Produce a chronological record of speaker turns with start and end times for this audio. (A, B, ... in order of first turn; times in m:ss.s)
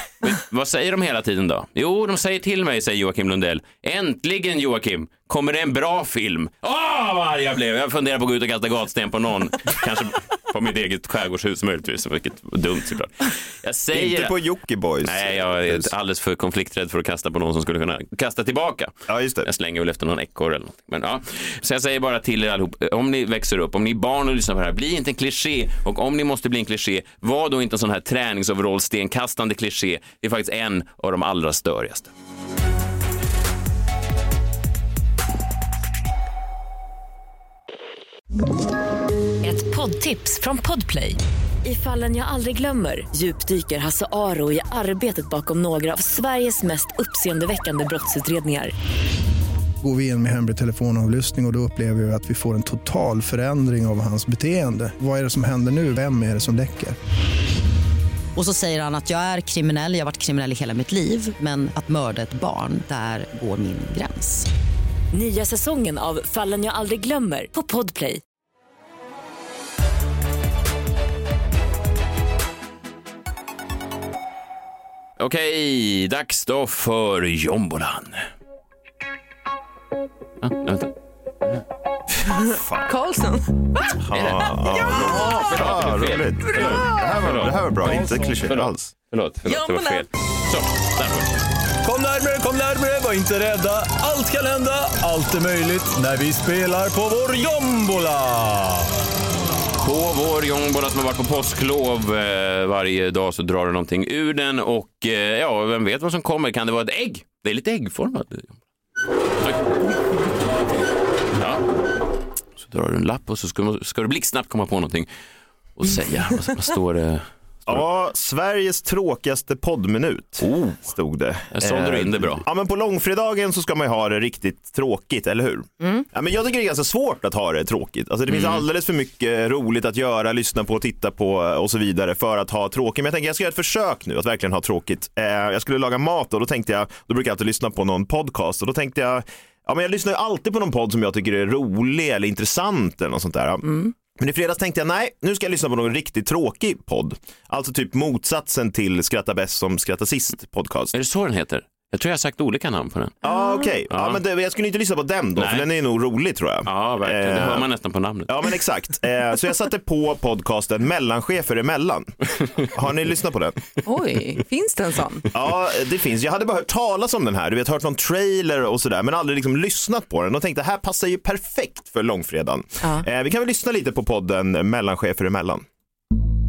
0:00.2-0:14.3 A
0:13.9-0:15.9 B
0:15.0-0:32.1 A
0:19.1-0:19.5 B
0:39.4-0:48.7 C
0:49.8-0:57.0 D
0:58.4-1:04.5 E
1:05.1-1:08.2 C
1:15.2-1:18.3 A
1:20.4-1:20.9 A
1:22.3-1:25.4 F
1:22.5-1:22.9 B
1:24.0-1:28.9 B
1:24.9-1:31.4 A
1:26.6-1:27.0 F
1:29.4-1:30.1 F
1:31.8-1:38.9 G
1:39.8-1:48.6 A
1:51.3-1:51.6 A
1:52.6-1:55.1 A
1:55.8-1:57.8 A
1:57.7-2:30.9 B
2:00.4-2:00.8 A
2:01.5-2:02.4 A
2:08.3-2:08.6 A
2:23.6-2:23.9 F
2:30.9-2:33.2 A
2:33.2-2:33.7 F
2:33.2-2:37.7 B
2:33.9-2:34.2 A
2:35.4-2:35.6 A
2:36.6-2:38.3 A
2:38.2-2:43.6 B
2:43.8-2:45.3 F
2:45.3-2:55.6 B